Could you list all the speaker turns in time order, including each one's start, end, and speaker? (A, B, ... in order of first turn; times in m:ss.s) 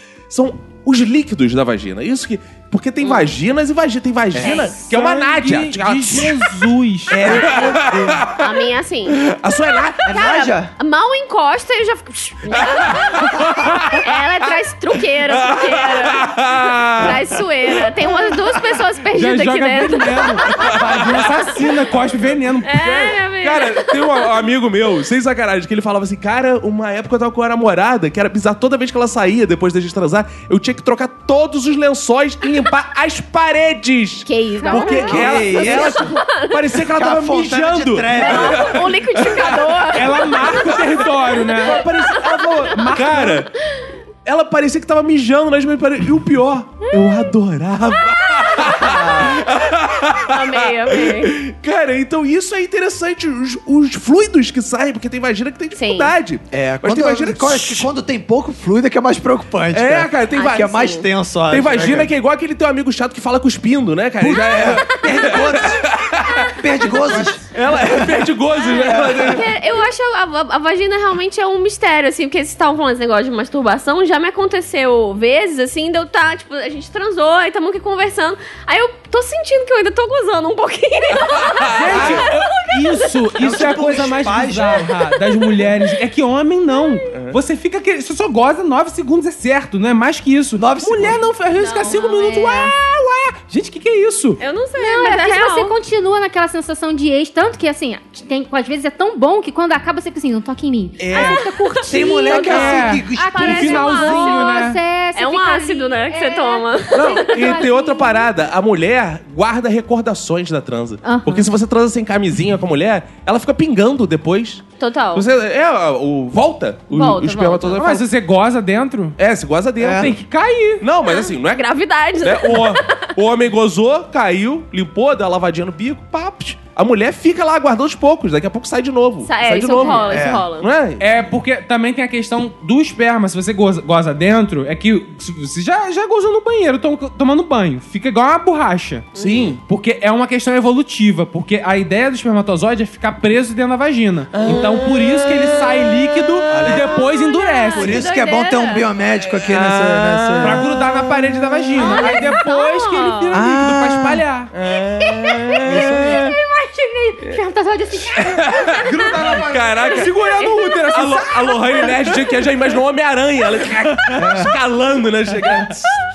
0:00.3-0:06.6 A
0:03.0-0:03.3 B
0:04.3-0:04.7 C
0:04.4-0:04.7 B
0:04.8-0:07.3 D
0:07.1-0:08.2 C
0:07.2-0:08.4 A
0:08.4-0:09.2 B
0:09.2-0:10.0 A
0:10.0-0:10.7 C
0:10.0-0:13.4 B
0:12.6-0:14.2 A
0:13.9-0:20.8 B
0:15.3-0:17.2 A
0:19.1-0:22.8 D
0:20.5-0:21.3 A
0:22.6-0:24.2 B
0:22.7-0:39.5 A
0:34.2-0:36.6 B
0:34.6-0:35.1 E
0:35.0-0:36.1 C
0:36.9-0:38.8 C
0:38.2-0:42.5 B
0:39.9-0:41.8 D
0:41.5-0:43.5 A
0:42.7-0:43.5 D
0:44.2-0:57.9 A
0:48.8-0:49.4 C
0:50.3-0:51.3 B
0:55.7-0:56.1 B
0:56.5-1:02.1 C
0:59.7-1:00.8 A
1:00.3-1:01.1 B
1:01.5-1:09.4 A
1:04.2-1:08.3 C
1:05.1-1:05.5 B
1:06.9-1:07.3 B
1:08.5-1:24.0 B
1:08.8-1:09.4 C
1:21.5-1:22.2 A
1:21.7-1:34.4 D
1:22.0-1:22.2 C
1:23.4-1:24.9 C
1:24.7-1:25.6 B
1:27.1-1:27.4 A
1:30.6-1:31.2 C
1:31.6-1:32.2 B
1:31.9-1:32.7 E
1:34.4-1:35.7 B
1:34.8-1:48.3 E
1:41.0-1:44.0 C
1:42.1-1:44.6 B
1:42.4-1:44.8 D
1:45.1-1:47.6 B
1:46.9-1:54.6 A
1:51.0-1:51.5 E
1:54.8-1:55.2 B
1:55.1-1:58.0 A
1:56.9-1:57.8 B
1:57.8-1:59.2 D
1:59.2-2:00.2 A
1:59.8-2:00.1 C
1:59.9-2:00.8 D
2:00.8-2:01.6 A
2:01.0-2:03.1 B
2:02.2-2:11.1 A
2:09.2-2:10.7 B
2:10.1-2:10.4 C
2:11.0-2:28.0 D
2:19.1-2:19.5 B
2:19.2-2:19.6 A
2:24.3-2:25.9 A
2:26.5-2:27.0 C
2:26.9-2:28.9 B
2:27.7-2:30.7 C
2:29.4-2:31.8 A
2:30.4-2:34.5 D
2:31.8-2:32.6 E
2:31.8-2:33.3 B
2:33.3-2:34.2 C
2:34.5-2:36.4 A
2:35.0-2:39.4 E
2:35.6-2:36.2 C
2:38.1-2:45.9 A
2:38.9-2:39.4 C
2:39.1-2:41.8 D
2:44.2-2:44.6 C